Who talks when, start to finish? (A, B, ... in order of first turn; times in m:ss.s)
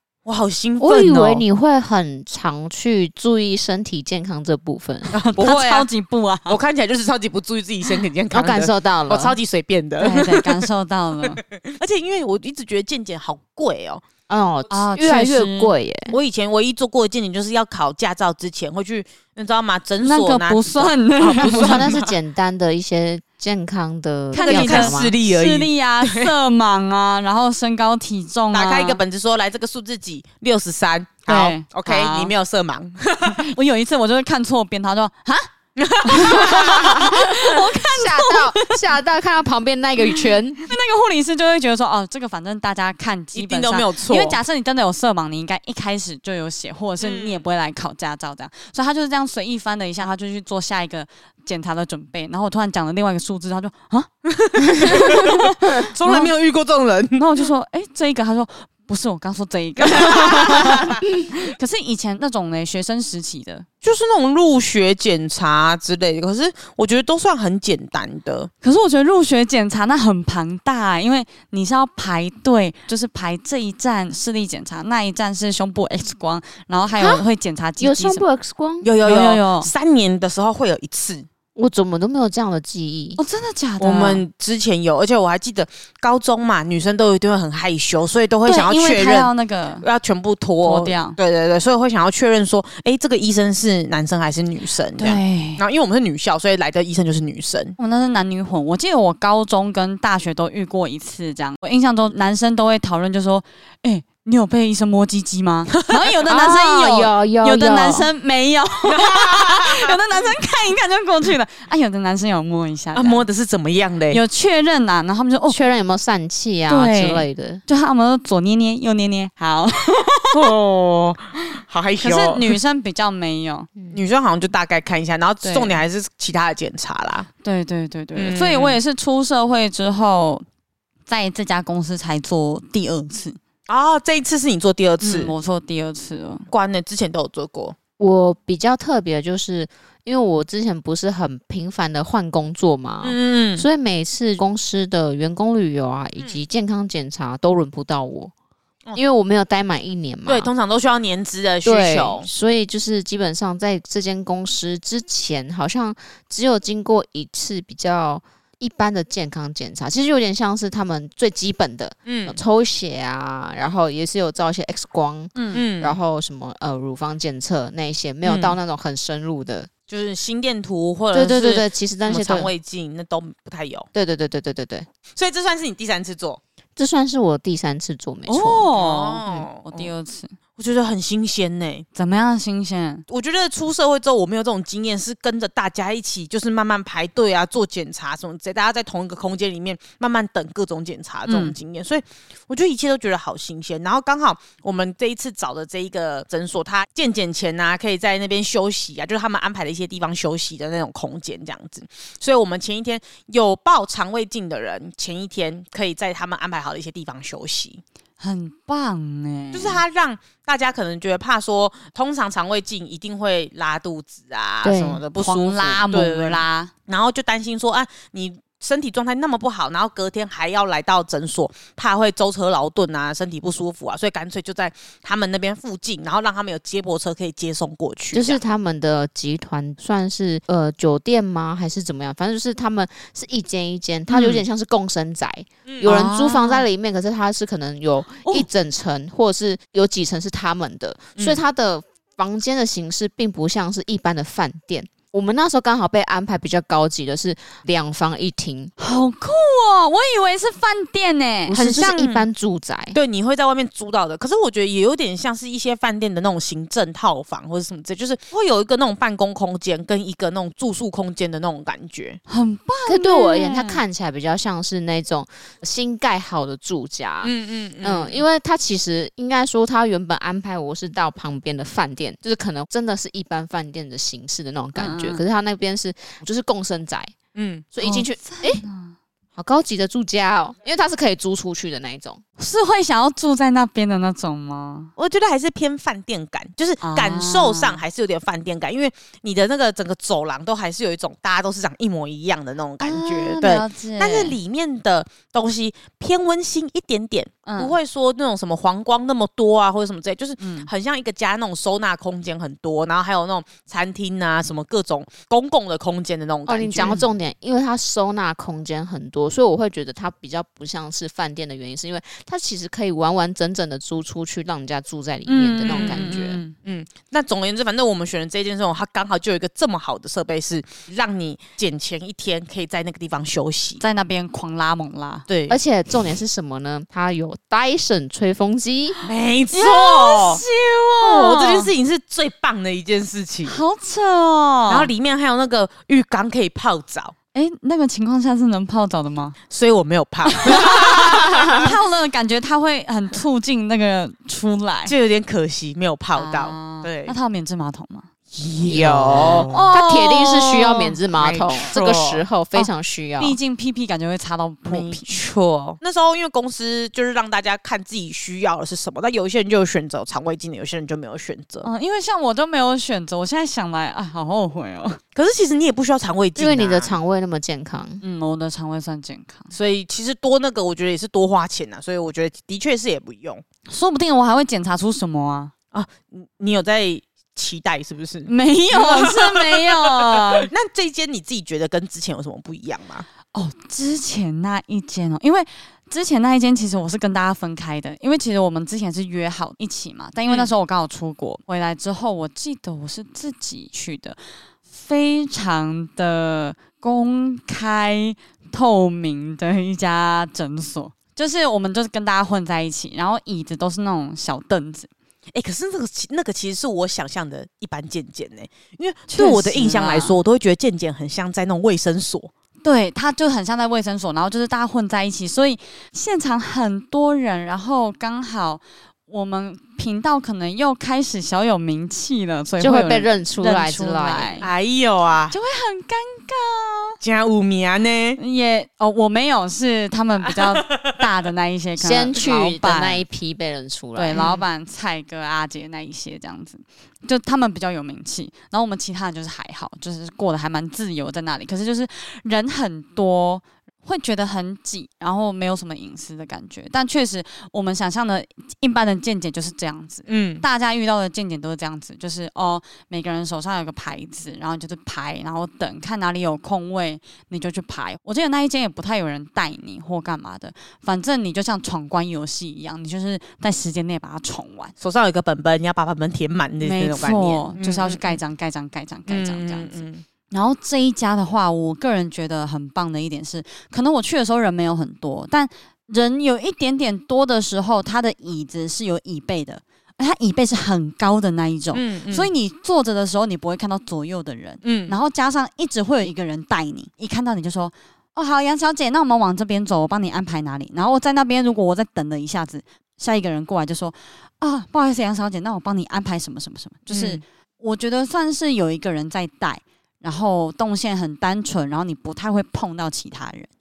0:00.2-0:01.4 A
0:00.8-0:05.8 B
0:05.1-0:05.8 A
0:05.2-0:06.6 C
0:06.5-0:10.7 A
0:08.3-0:09.4 B
0:10.0-0:11.4 C
0:11.2-0:14.0 A
0:14.3-0:16.2 B
0:14.7-0:15.7 C
0:16.1-0:22.1 A
0:20.0-0:21.8 C
0:21.4-0:25.1 B
0:24.3-0:29.0 C
0:24.4-0:26.3 A
0:28.5-0:33.5 A
0:31.3-0:32.3 C
0:33.2-0:35.5 C
0:35.8-0:37.0 A
0:36.0-0:38.8 C
0:36.5-0:40.8 B
0:40.1-0:56.3 C
0:43.3-0:44.4 A
0:47.0-0:47.4 A
0:54.3-0:57.4 A
0:57.2-1:03.7 C
0:59.8-1:00.8 A
1:03.8-1:08.5 A
1:08.6-1:18.2 C
1:17.8-1:18.9 B
1:18.8-1:21.3 A
1:19.0-1:19.7 C
1:21.6-1:23.2 B
1:23.2-1:24.2 C
1:23.8-1:37.8 A
1:28.4-1:29.9 C
1:30.6-1:31.2 C
1:35.0-1:35.6 C
1:37.8-1:53.2 C
1:46.3-1:48.1 B
1:48.8-1:50.0 A
1:53.0-1:54.2 A
1:54.1-1:55.6 C
1:55.5-1:57.6 B
1:56.7-2:00.5 C
2:00.3-2:02.6 A
2:02.0-2:03.7 C
2:03.9-2:07.3 A
2:05.4-2:05.8 C
2:07.4-2:10.4 C
2:08.2-2:08.8 A
2:11.1-2:13.4 C
2:13.7-2:15.3 A
2:15.0-2:16.5 C
2:16.5-2:17.8 A
2:18.0-2:28.3 B
2:23.0-2:23.7 A
2:29.0-2:30.5 B
2:30.3-2:32.3 A
2:31.6-2:49.7 B
2:42.1-2:42.4 A
2:45.4-2:45.6 C
2:45.5-2:46.0 A
2:48.2-2:48.6 A
2:49.9-2:53.9 A
2:51.1-2:52.5 B
2:53.9-2:54.9 B
2:55.2-2:56.4 A
2:56.8-2:58.7 B
2:58.3-3:00.4 C
2:58.7-2:59.9 A
3:00.6-3:01.9 A
3:02.0-3:03.0 C
3:03.1-3:27.8 A
3:11.3-3:11.6 C
3:28.2-3:29.8 C
3:29.5-3:48.4 A
3:34.6-3:35.0 B
3:35.2-3:36.7 C
3:48.1-4:08.7 B
3:54.1-3:54.4 A
3:55.7-3:55.9 A
3:55.8-3:56.6 C
4:01.2-4:01.4 A
4:08.8-4:11.6 C
4:11.5-4:12.3 A
4:11.5-4:13.0 B
4:12.9-4:22.2 A
4:22.3-4:23.8 C
4:22.9-4:37.2 B
4:27.2-4:28.2 A
4:34.8-4:35.2 C
4:37.4-4:37.7 A
4:37.7-4:38.6 B
4:37.8-4:39.0 C
4:39.4-4:42.2 B
4:42.4-4:44.9 C
4:45.0-5:07.0 A
4:46.8-4:47.8 C
4:52.8-4:54.4 C
4:57.4-4:57.8 C
5:00.4-5:00.7 C
5:06.5-5:16.4 B
5:15.3-5:16.6 C
5:15.6-5:16.1 A
5:16.6-5:23.8 A
5:23.8-5:25.2 C
5:25.3-5:25.6 A
5:25.5-5:29.0 B
5:29.0-5:30.4 A
5:29.5-5:31.7 C
5:31.0-5:33.6 A
5:33.5-5:34.9 C
5:34.7-5:37.1 A
5:37.3-5:39.4 C
5:39.5-5:41.7 A
5:40.3-5:45.0 C
5:44.9-5:47.2 A
5:46.2-5:48.1 C
5:48.3-5:49.6 A
5:48.6-5:53.4 B
5:49.4-5:51.0 C
5:51.2-5:52.2 A
5:53.2-5:55.2 C
5:54.6-6:01.7 A
6:01.6-6:05.0 C
6:05.2-6:07.0 A
6:06.4-6:08.0 B
6:08.0-6:09.5 C
6:09.5-6:13.4 A
6:13.7-6:15.5 C
6:15.7-6:23.1 A
6:18.3-6:20.5 C
6:23.3-6:34.2 C
6:30.3-6:30.5 A
6:34.7-6:44.9 C
6:45.3-6:52.3 A
6:49.1-6:50.2 C
6:52.6-7:04.5 C
7:02.6-7:04.4 B
7:04.4-7:05.4 A
7:05.3-7:07.0 C
7:07.0-7:08.2 A
7:08.2-7:13.0 C
7:10.6-7:11.0 A
7:11.8-7:14.2 B
7:14.0-7:44.7 C
7:14.1-7:14.4 A
7:30.1-7:30.4 A
7:44.8-7:48.2 A
7:46.6-8:23.5 C
7:49.1-7:50.0 A
8:01.7-8:02.3 A
8:04.6-8:05.0 A
8:16.9-8:17.2 A